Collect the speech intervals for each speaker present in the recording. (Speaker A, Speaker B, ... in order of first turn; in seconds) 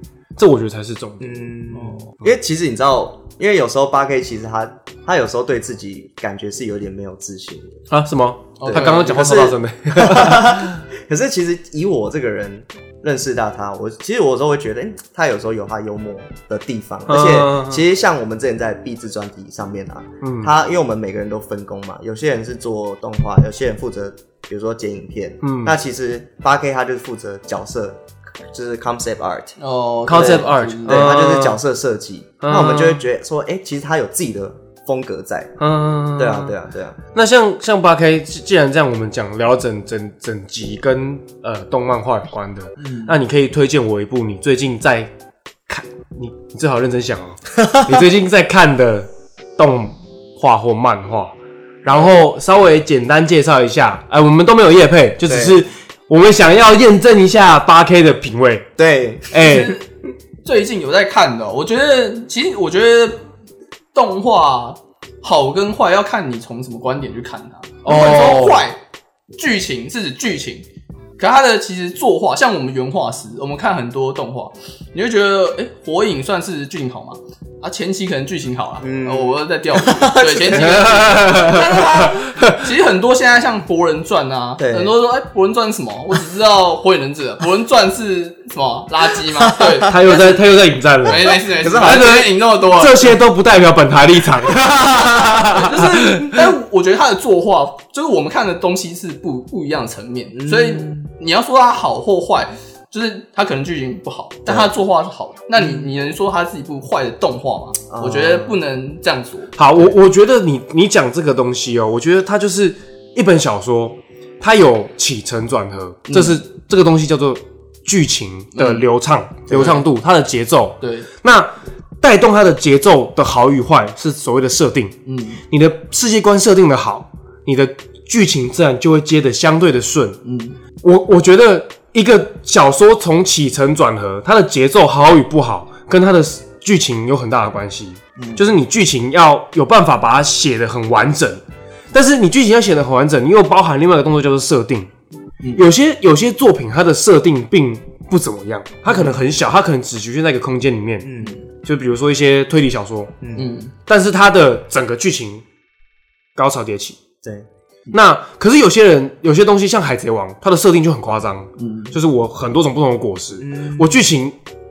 Speaker A: 0.4-1.4, 7.9-10.8, 17.1-17.8, 20.2-20.5, 25.4-25.8, 30.1-31.6, 32.4-33.0, 35.6-36.5, 37.1-45.1, 45.7-58.7, 59.3-59.8, 67.8-68.7, 80.6-82.7, 89.8-96.5, 109.6-125.0, 125.5-130.2, 130.8-144.9, 145.6-151.1, 151.6-153.2, 153.8-155.4, 156.4-157.0, 157.9-164.4
Speaker B: 1.2-7.8, 8.7-29.6, 30.1-35.5, 36.2-37.0, 55.3-55.6, 58.8-59.5, 78.8-81.2, 84.6-84.9, 89.3-89.9, 91.3-92.2, 100.3-101.1, 104.5-104.7, 105.5-105.9, 107.9-108.6, 151.0-151.3, 153.2-153.6, 163.4-164.0
Speaker C: 1.7-2.1, 8.6-9.3, 29.6-31.1, 59.4-59.9, 60.4-63.2, 63.9-68.8, 69.3-70.7, 71.2-93.2, 95.5-109.6, 116.1-116.4, 118.5-118.9, 119.5-119.8, 120.8-121.1, 125.1-125.4, 130.2-130.6, 138.2-138.4, 153.4-153.7, 161.6-161.9